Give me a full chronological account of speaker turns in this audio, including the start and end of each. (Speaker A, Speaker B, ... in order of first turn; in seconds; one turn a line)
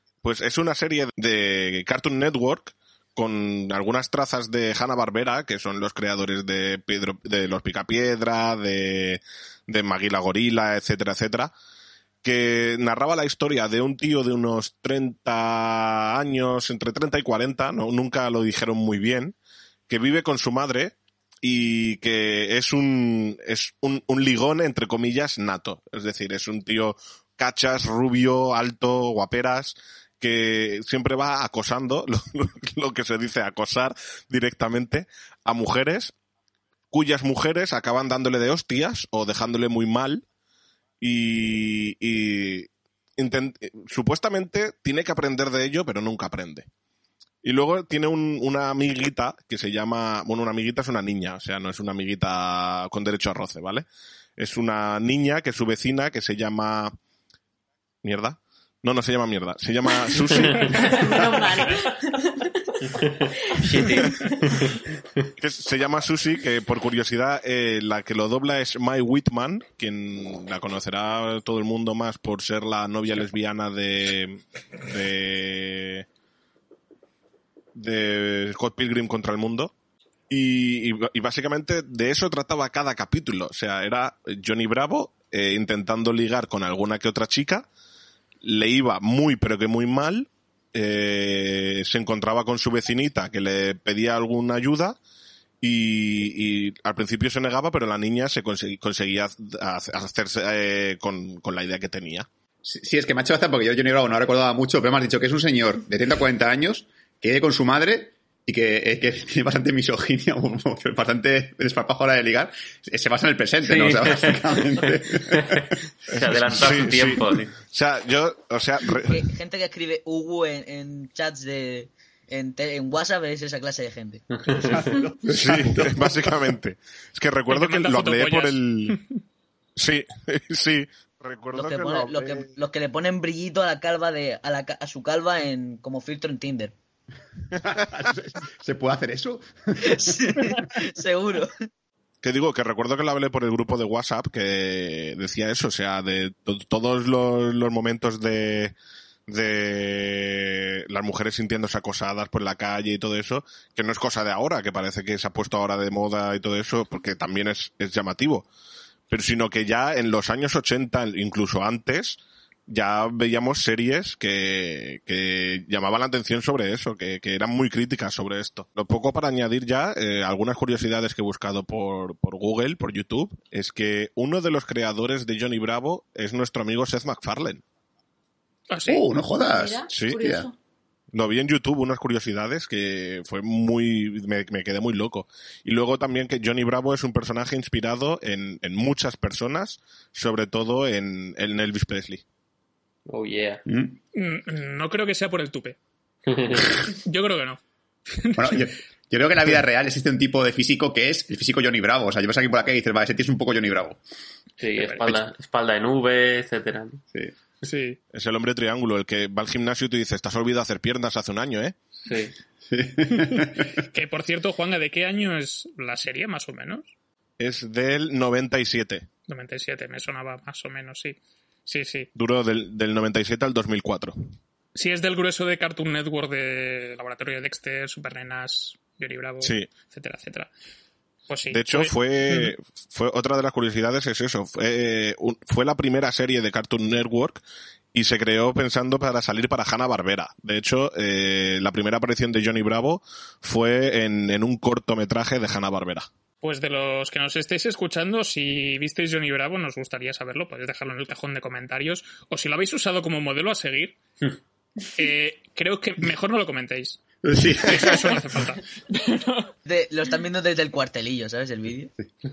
Speaker A: 0.2-11.5
Speaker A: 12.2-19.3
Speaker A: 19.9-36.1
Speaker A: 36.9-40.2
Speaker A: 41.0-46.7
Speaker A: 47.4-53.9
Speaker A: 54.4-57.0
Speaker A: 58.0-61.0
Speaker B: 60.7-62.6
Speaker C: 63.6-64.7
Speaker A: 65.4-76.0
Speaker A: 77.7-79.7
Speaker A: 80.3-87.7
Speaker A: 88.4-95.0
Speaker A: 95.6-102.3
Speaker D: 102.6-115.6
Speaker C: 113.6-117.5
Speaker A: 116.1-119.2
Speaker E: 119.1-124.2
Speaker C: 124.3-124.8
Speaker D: 124.5-126.3
Speaker A: 125.3-129.0
Speaker F: 127.5-129.1
Speaker A: 129.8-132.5
Speaker E: 131.5-136.7
Speaker D: 137.7-140.5
Speaker E: 139.9-141.5
Speaker A: 142.2-148.7
Speaker A: 149.3-158.4
Speaker A: 159.1-177.6
Speaker F: 178.7-179.0
Speaker D: 178.8-180.4
Speaker B: 179.5-180.5
Speaker A: 179.9-180.2
Speaker A: 181.1-192.2
Speaker C: 193.1-193.6
Speaker D: 193.7-193.9
Speaker F: 194.1-195.8
Speaker C: 196.2-196.7
Speaker F: 197.0-197.6
Speaker F: 198.1-198.6
Speaker D: 198.4-204.0
Speaker C: 204.6-207.0
Speaker F: 204.7-205.2
Speaker F: 207.6-208.0
Speaker A: 208.1-211.8
Speaker C: 212.0-212.3
Speaker D: 212.7-213.7
Speaker F: 213.8-216.9
Speaker A: 217.4-219.1
Speaker F: 219.3-222.1
Speaker A: 222.1-224.1
Speaker F: 224.7-230.5
Speaker A: 229.4-229.7
Speaker F: 231.3-232.5
Speaker A: 231.5-237.4
Speaker A: 237.9-246.1
Speaker F: 246.4-254.0
Speaker F: 254.9-259.5
Speaker D: 257.2-258.0
Speaker E: 259.6-261.9